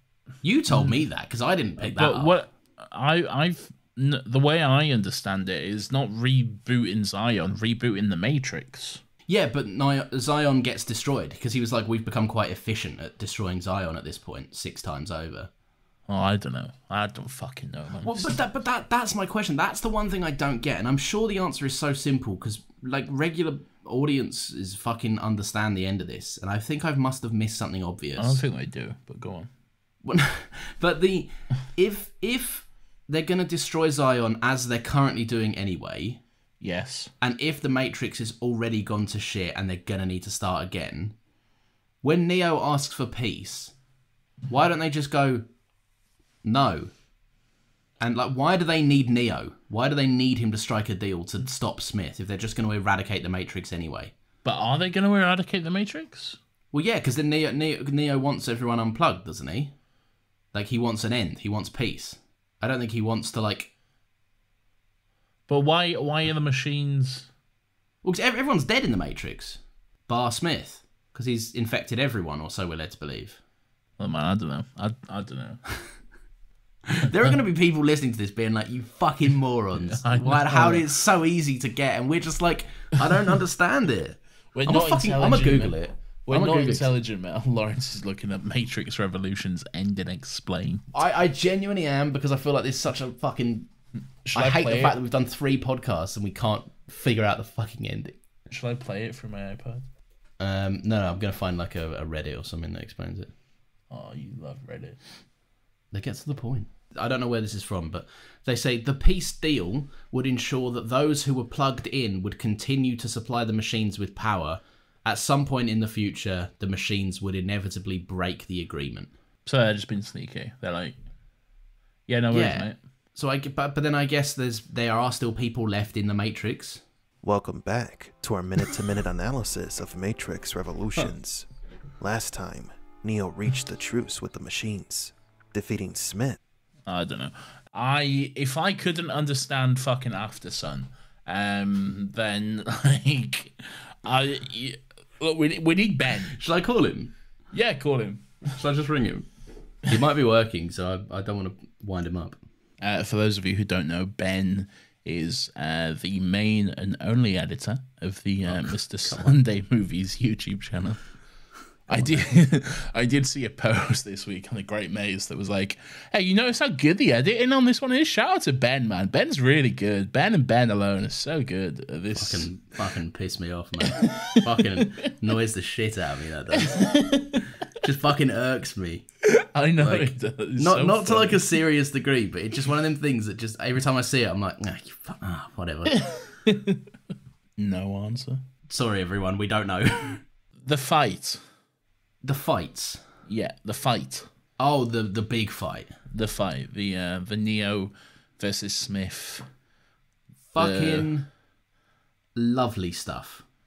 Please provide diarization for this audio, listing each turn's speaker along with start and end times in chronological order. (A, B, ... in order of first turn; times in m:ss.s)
0:00.4-0:02.4 A
0:00.7-0:01.0 B
0:01.8-0:09.0 B
0:09.3-0:15.5 A
0:16.1-0:18.4 B
0:18.0-0:28.4 A
0:28.2-0:29.5 B
0:30.0-0:36.2 A
0:36.6-0:37.1 B
0:37.2-0:41.2 A
0:42.0-0:43.7 A
0:44.5-0:45.4 A
0:46.4-0:46.9 A
0:48.0-0:54.1 A
0:54.4-0:56.4 B
0:56.7-0:59.7 A
1:00.5-1:03.7 A
1:05.5-1:07.3 B
1:08.0-1:13.4 A
1:14.0-1:15.6 B
1:16.8-1:26.9 A
1:19.8-1:20.9 B
1:24.5-1:25.7 B
1:26.2-1:30.8 B
1:30.9-1:33.7 A
1:34.2-1:35.0 B
1:34.3-1:38.2 A
1:38.5-1:39.8 B
1:40.4-1:43.3 A
1:43.9-1:45.0 B
1:45.9-1:59.1 A
1:59.4-2:01.0 B
2:02.1-2:02.8 B
2:02.3-2:06.8 A
2:07.2-2:16.4 C
2:16.9-2:26.4 B
2:26.3-2:27.1 A
2:27.5-2:28.5 B
2:28.5-2:29.3 A
2:29.8-2:32.4 A
2:32.8-2:41.0 B
2:38.4-2:39.4 A
2:41.9-2:52.5 B
2:41.9-2:42.2 A
2:52.2-2:56.8 A
2:53.8-2:54.8 B
2:56.6-2:57.4 B
2:57.7-2:59.0 A
2:59.3-3:01.4 B
2:59.8-3:06.0 A
3:05.9-3:06.8 B
3:07.6-3:08.4 B
3:08.7-3:10.2 A
3:10.6-3:11.4 B
3:12.2-3:13.0 A
3:13.3-3:14.3 B
3:14.6-3:16.0 A
3:16.1-3:19.5 B
3:20.5-3:21.3 A
3:20.6-3:21.1 B
3:22.4-3:23.4 A